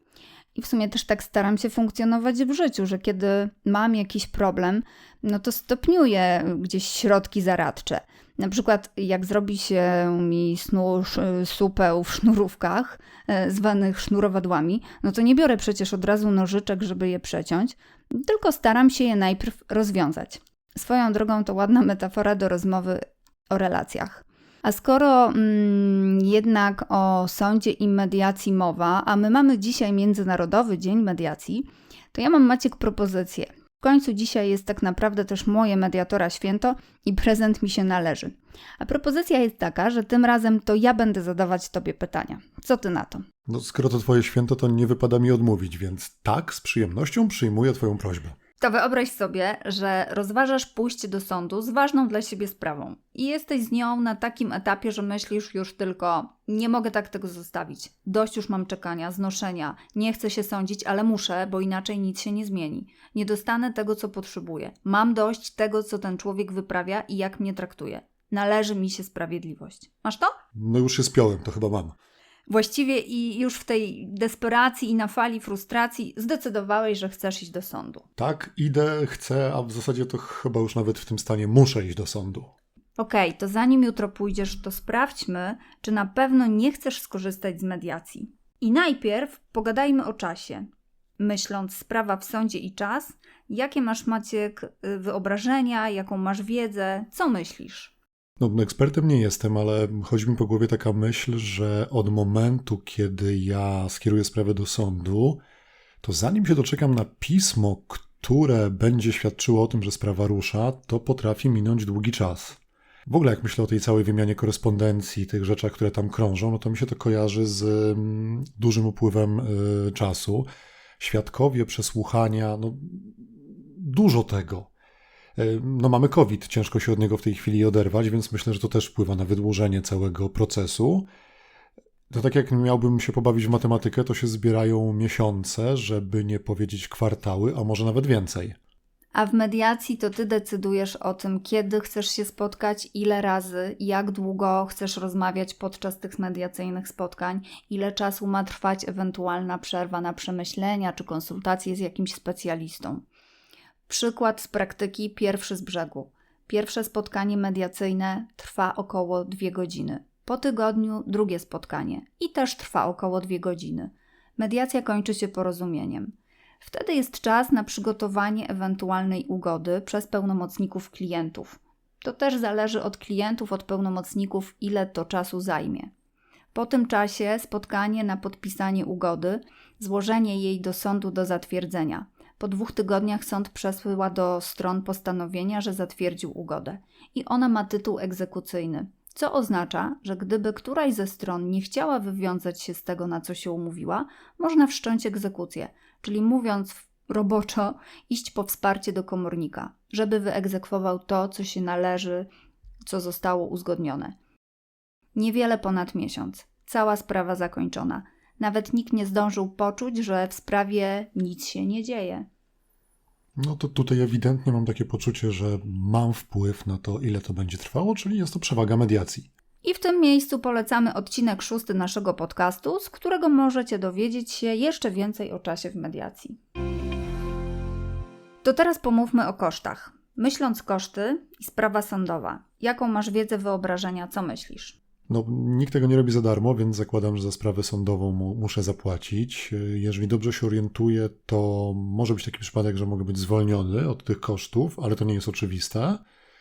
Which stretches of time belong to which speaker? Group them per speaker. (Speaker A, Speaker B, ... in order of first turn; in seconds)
Speaker A: 0.5-43.2, 48.6-70.3, 72.5-78.0, 83.0-90.7, 91.2-97.9, 139.1-153.0, 153.9-175.9, 176.5-202.3, 202.8-204.1, 205.1-212.2, 219.6-226.4, 228.4-234.8
Speaker B: 43.5-48.4, 70.5-72.0, 78.2-82.5, 98.4-105.4, 106.0-120.5, 121.0-124.7, 125.3-131.1, 132.1-138.6, 213.4-219.3, 235.1-246.0